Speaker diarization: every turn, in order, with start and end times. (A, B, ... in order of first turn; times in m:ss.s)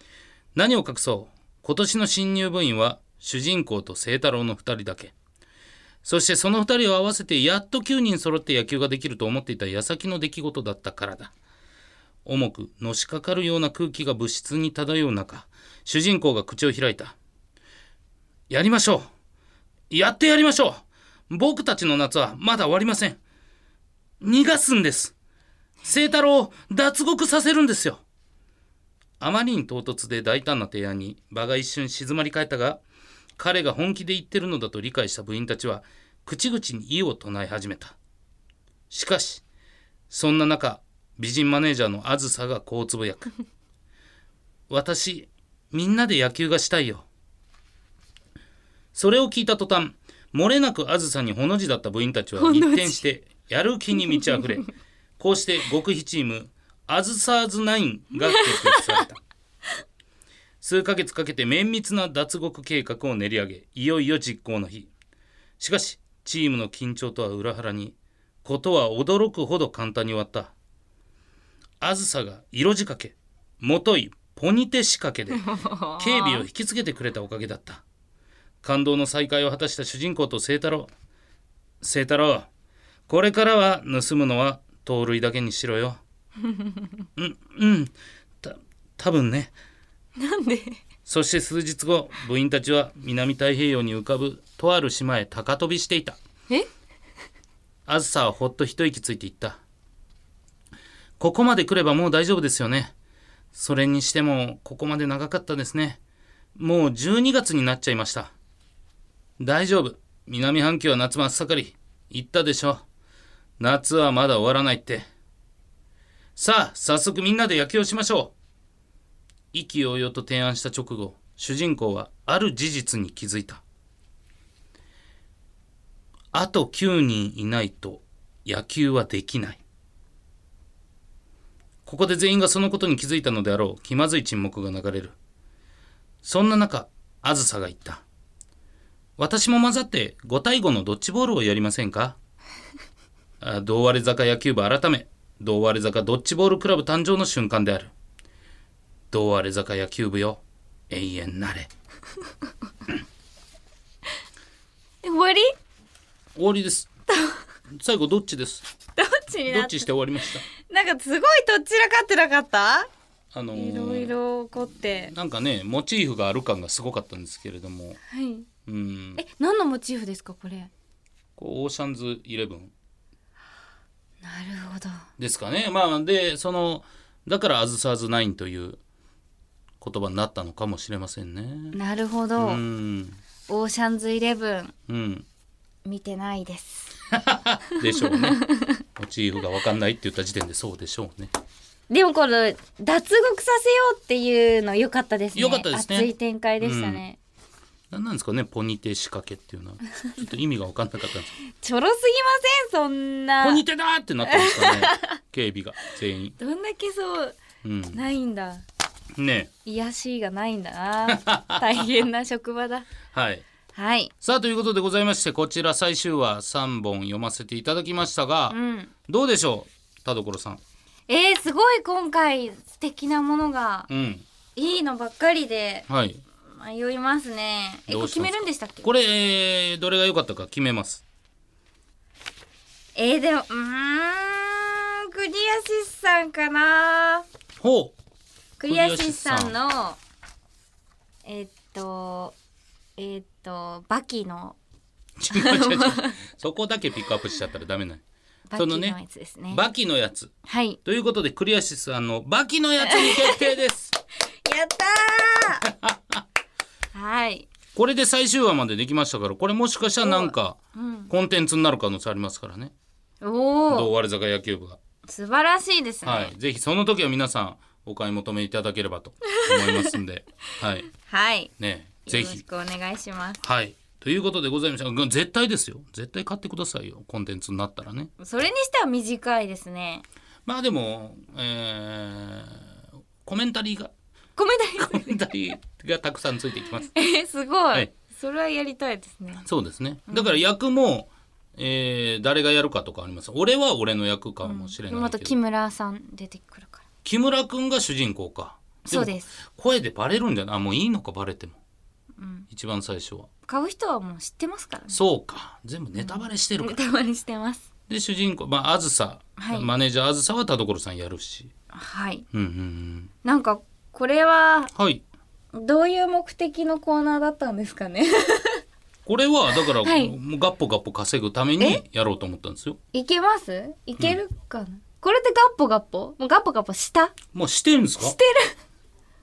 0:00.6-0:05.1 A
0:06.0-0:11.3 A
0:12.2-0:17.2 A
0:18.5-0:19.1 A
0:19.9-0:23.2 A
0:24.2-0:25.2 A
0:25.8-0:28.0 A
0:29.2-0:32.8 A
0:33.4-0:38.0 A
0:38.9-0:39.4 A
0:40.1-0:43.3 A
0:44.7-0:47.1 A
0:48.9-0:54.7 A
0:52.4-0:53.0 B
0:55.2-0:59.2 A
0:58.2-0:59.0 B
1:00.6-1:04.9 A
1:05.6-1:10.5 A
1:11.8-1:15.4 A
1:15.3-1:16.5 B
1:16.0-1:17.8 A
1:18.6-1:20.9 A
1:21.8-1:22.5 A
1:23.1-1:26.0 A
1:26.4-1:26.9 B
1:27.2-1:29.5 A
1:30.2-1:30.8 B
1:31.1-1:36.2 A
1:37.9-1:39.6 A
1:41.2-1:42.9 A
1:43.5-1:46.0 A
1:46.6-1:48.3 A
1:49.4-1:52.8 A
1:53.6-1:55.0 A
1:56.4-1:58.3 A
1:59.5-2:03.6 A
2:06.3-2:09.6 A
2:11.9-2:15.2 A
2:16.2-2:18.0 A
2:19.2-2:22.2 A
2:23.4-2:27.9 A
2:29.1-2:31.7 A
2:35.0-2:35.6 B
2:36.4-2:36.9 A
2:37.1-2:37.4 B
2:37.7-2:38.7 A
2:39.0-2:39.9 B
2:39.5-2:40.4 A
2:40.5-2:42.9 B
2:43.3-2:44.1 A
2:43.5-2:45.1 B
2:45.1-2:48.0 A
2:48.1-2:48.5 B
2:48.7-2:49.2 A
2:49.2-2:50.7 B
2:51.4-2:52.7 A
2:54.2-2:55.0 B
2:55.2-2:58.8 A
2:59.8-3:01.8 A
3:01.7-3:02.6 B
3:02.4-3:03.2 A
3:03.5-3:04.7 B
3:04.9-3:05.3 A
3:05.8-3:06.9 B
3:07.1-3:08.4 A
3:07.8-3:08.8 B
3:09.0-3:11.3 A
3:11.9-3:17.2 B
3:15.4-3:17.0 A
3:17.9-3:21.3 A
3:21.4-3:23.6 B
3:23.4-3:26.4 A
3:24.2-3:25.2 B
3:26.4-3:27.4 B
3:27.6-3:28.0 A
3:27.9-3:28.6 B
3:29.2-3:29.5 A
3:29.6-3:32.9 B
3:31.1-3:32.0 A
3:33.1-3:33.4 A
3:33.8-3:34.1 B
3:34.2-3:38.6 A
3:38.5-3:38.9 B
3:39.1-3:40.6 A
3:41.1-3:43.9 B
3:43.9-3:44.2 A
3:44.6-3:45.9 B
3:45.9-3:46.2 A
3:46.5-3:48.9 B
3:47.9-3:51.0 A
3:53.0-3:57.2 B
3:57.6-3:58.0 A
3:58.6-4:00.0 B
3:58.7-3:59.6 A
4:01.3-4:02.4 B
4:03.0-4:04.6 B
4:05.2-4:08.0 A
4:05.3-4:06.2 B
4:08.5-4:09.6 B
4:08.6-4:09.0 A
4:09.5-4:10.3 A
4:10.4-4:10.8 B
4:10.8-4:14.0 A
4:12.8-4:13.5 B
4:14.4-4:15.7 B
4:15.6-4:16.2 A
4:16.9-4:17.5 B
4:17.8-4:20.6 A
4:20.0-4:21.1 B
4:21.1-4:22.7 A
4:23.2-4:23.9 B
4:23.7-4:24.8 A
4:25.1-4:26.3 B
4:26.0-4:30.9 A
4:29.3-4:30.0 B
4:30.9-4:31.5 B
4:31.6-4:32.4 A
4:32.1-4:33.4 B
4:33.4-4:38.1 A
4:38.2-4:40.0 B
4:40.5-4:43.9 A
4:44.4-4:45.2 B
4:44.8-4:46.9 A
4:46.9-4:49.5 B
4:49.4-4:55.4 A
4:50.1-4:50.4 B
4:54.4-4:56.8 B
4:57.0-5:01.6 A
4:58.9-4:59.3 B
5:02.2-5:02.5 B
5:02.5-5:03.3 A
5:03.5-5:05.0 B
5:04.9-5:06.8 A
5:06.0-5:07.7 B
5:07.9-5:11.5 A
5:09.4-5:09.7 B
5:11.7-5:12.2 B
5:12.3-5:13.1 A
5:13.2-5:14.7 B
5:14.8-5:15.0 A
5:15.5-5:18.6 B
5:19.1-5:22.8 A
5:19.8-5:20.1 B
5:22.9-5:27.2 B
5:27.3-5:28.2 A
5:28.0-5:28.6 B